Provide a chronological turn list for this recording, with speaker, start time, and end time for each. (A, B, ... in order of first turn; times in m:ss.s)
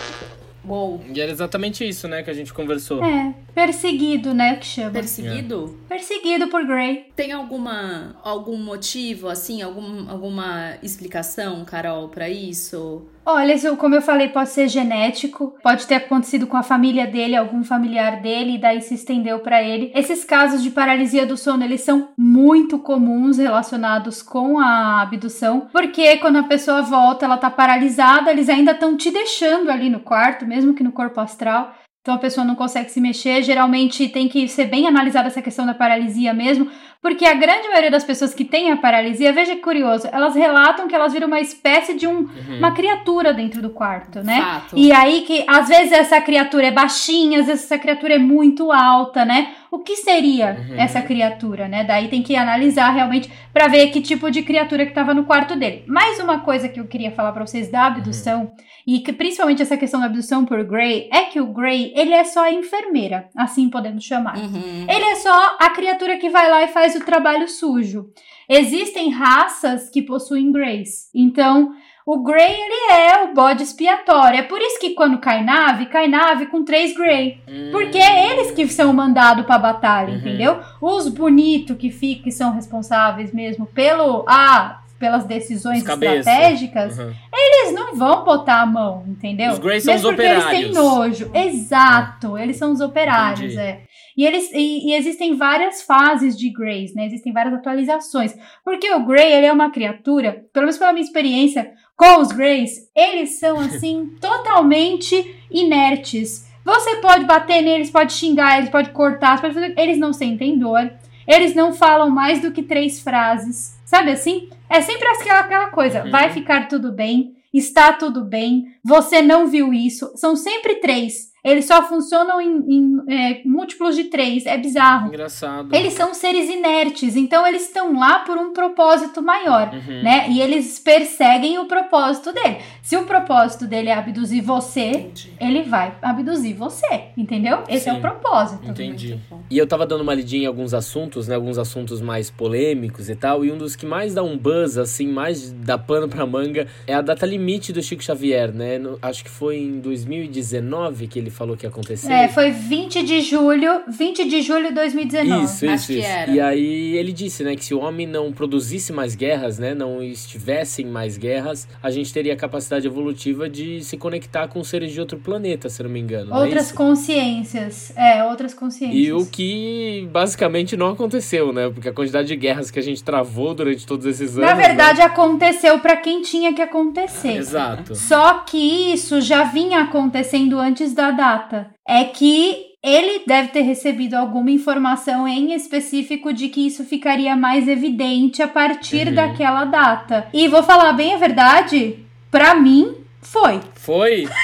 0:00.6-0:01.0 A
0:01.0-0:03.1 B
0:03.0-0:05.1 C
0:04.9-0:05.8 A
0:05.9-0:07.0 C
0:07.2-0:13.1 A
0:13.2-2:05.1 C
0:42.3-0:42.8 B
0:44.1-0:44.9 A
0:50.6-0:51.1 B
0:58.0-0:58.3 B
1:04.3-1:05.0 A
1:17.5-1:18.6 B
1:20.1-1:20.5 B
1:25.7-1:27.2 B
1:29.4-1:31.0 B
1:33.1-1:33.6 B
1:55.9-1:56.4 B
2:05.0-2:05.9 B
2:05.7-2:18.8 C
2:09.7-2:10.1 B
2:15.0-2:15.4 A
2:17.7-2:32.3 B
2:18.7-2:19.5 A
2:32.0-2:35.7 C
2:35.2-2:46.8 B
2:35.6-2:36.4 A
2:46.3-2:49.3 C
2:48.9-2:55.0 B
2:54.4-3:13.7 C
2:57.2-2:58.0 B
3:08.9-3:09.4 B
3:13.8-3:14.3 B